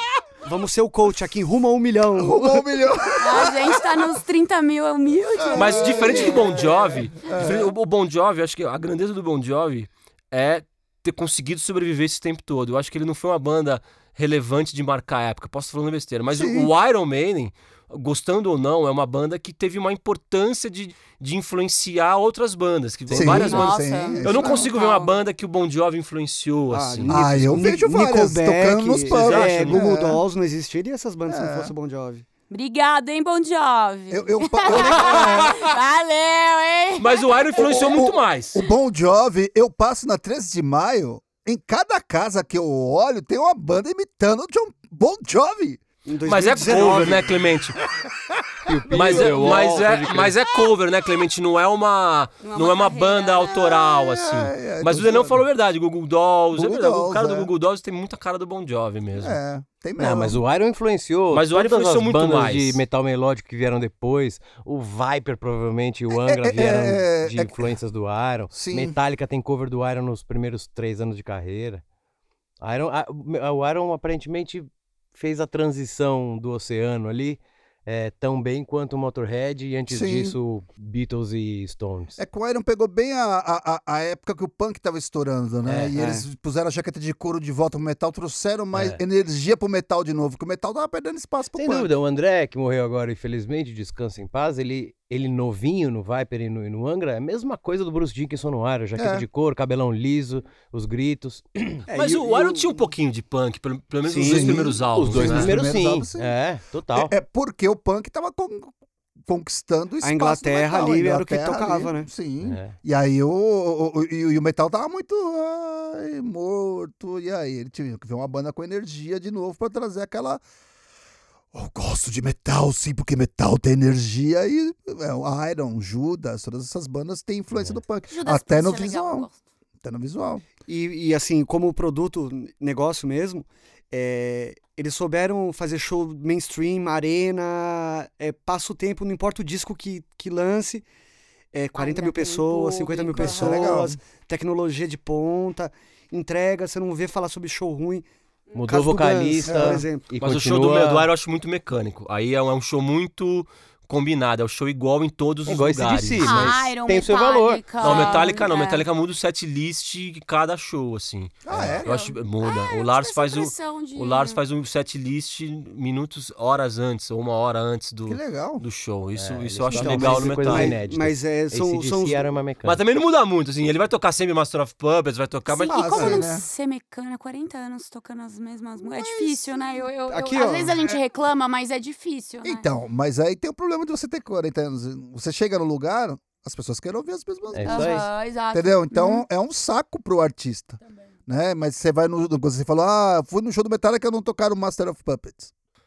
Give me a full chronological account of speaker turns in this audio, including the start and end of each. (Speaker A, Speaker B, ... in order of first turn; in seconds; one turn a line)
Speaker A: 0.4-2.6
Speaker B: 2.2-4.0
Speaker C: 3.2-6.4
Speaker B: 5.4-7.7
Speaker D: 5.5-27.6
Speaker B: 16.3-16.7
Speaker B: 23.1-24.7
Speaker C: 23.2-25.1
Speaker A: 26.7-32.2
Speaker B: 27.1-30.2
Speaker D: 29.1-29.8
Speaker B: 31.3-31.7
Speaker C: 32.5-37.9
Speaker B: 34.1-35.6
Speaker D: 34.9-35.7
Speaker D: 37.0-38.6
Speaker B: 37.5-45.8
Speaker A: 46.0-47.3
Speaker D: 46.2-47.8
Speaker E: 48.6-50.3
Speaker B: 48.7-49.5
Speaker D: 48.9-59.4
Speaker C: 52.4-53.9
Speaker B: 53.8-55.4
Speaker B: 56.5-57.5
Speaker B: 59.1-60.4
Speaker E: 60.0-71.8
Speaker D: 61.3-62.8
Speaker B: 66.1-67.7
Speaker B: 68.5-69.0
Speaker E: 72.6-82.2
Speaker B: 79.9-80.3
Speaker B: 82.2-91.9
Speaker E: 85.7-85.9
Speaker A: 85.9-86.2
Speaker E: 88.7-89.0
Speaker E: 91.5-101.9
Speaker B: 99.0-99.2
Speaker A: 101.9-102.8
Speaker D: 101.9-105.5
Speaker A: 104.0-104.8
Speaker B: 104.2-106.3
Speaker E: 104.4-107.1
Speaker B: 106.9-108.7
Speaker B: 109.2-120.4
Speaker A: 110.0-112.1
Speaker E: 112.4-112.7
Speaker B: 121.5-129.3
Speaker C: 128.1-129.4
Speaker B: 129.8-130.5
Speaker A: 130.7-140.8
Speaker A: 141.5-148.1
Speaker C: 141.8-143.7
Speaker B: 143.2-144.0
Speaker E: 148.6-151.1
Speaker A: 148.6-150.1
Speaker B: 149.4-149.8
Speaker D: 150.2-156.5
Speaker E: 155.5-158.2
Speaker C: 156.2-158.8
Speaker D: 157.8-170.8
Speaker B: 161.4-161.9
Speaker C: 161.8-164.4
Speaker B: 168.1-168.6
Speaker E: 169.2-172.8
Speaker A: 169.7-172.3
Speaker D: 172.6-176.2
Speaker C: 175.5-182.7
Speaker B: 175.7-176.4
Speaker B: 178.9-179.7
Speaker A: 180.1-180.9
Speaker B: 182.4-195.5
Speaker E: 187.5-188.1
Speaker C: 187.7-189.2